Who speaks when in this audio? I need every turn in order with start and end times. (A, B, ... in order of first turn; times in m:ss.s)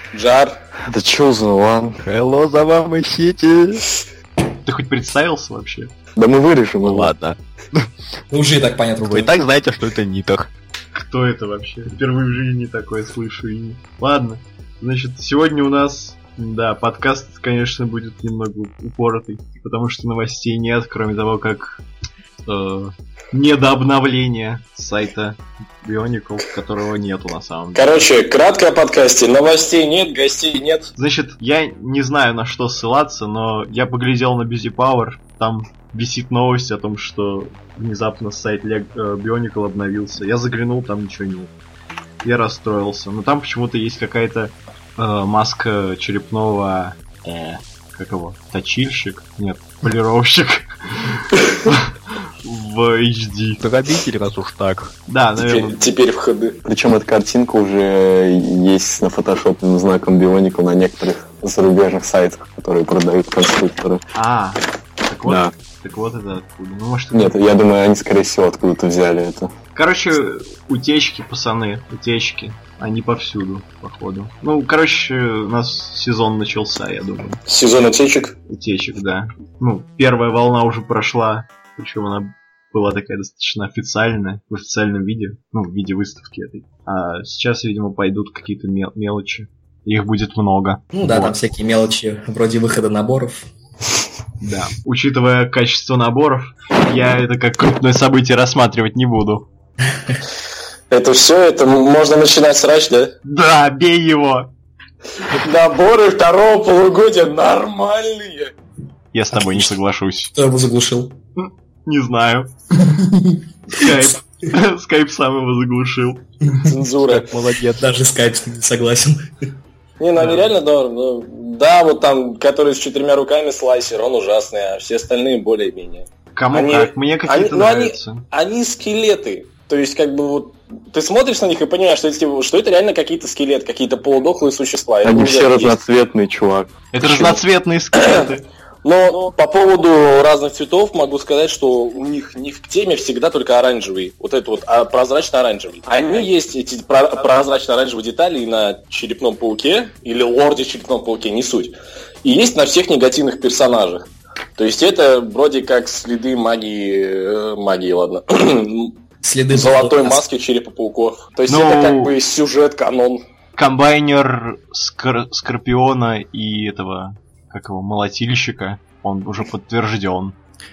0:00.1-0:00.5 A
0:00.9-0:02.0 B
0:02.0-0:03.9 C
0:04.6-0:05.9 D
0:06.2-0:07.1 B
0:06.8-0:07.9 C
0:08.3-0:09.4 E
0:09.0-0:10.5 C
0:10.9-0:21.8 D
0:22.4-0:28.1 D
0:27.8-0:30.9 A
0:31.0-0:41.5 D
0:42.2-0:51.9 D
0:52.4-0:53.6 D
0:53.6-0:54.9 C
0:55.1-0:55.9 D
0:55.4-0:56.6 A
0:56.6-1:04.0 B
1:04.1-1:07.4 D
1:05.3-1:05.5 B
1:07.1-1:09.5 B
1:09.7-1:17.4 D
1:17.5-1:18.3 A
1:18.5-1:31.4 D
1:30.9-1:33.5 E
1:34.4-1:39.5 D
1:40.9-1:43.1 A
1:43.2-1:44.5 D
1:45.4-1:48.5 A
1:49.1-1:50.3 D
1:49.3-1:49.7 E
1:50.3-1:51.1 E
1:51.4-1:52.5 D
1:52.8-1:53.4 E
1:53.7-1:56.2 D
1:56.6-1:57.3 A
1:57.0-1:57.8 C
1:57.8-1:59.2 E
2:00.0-2:15.8 A
2:00.2-2:00.5 D
2:06.4-2:08.2 D
2:15.0-2:17.4 B
2:16.9-2:18.5 D
2:18.0-2:18.3 A
2:18.8-2:39.0 A
2:39.2-2:40.2 E
2:39.5-2:43.2 A
2:41.5-2:42.2 D
2:43.6-2:50.4 D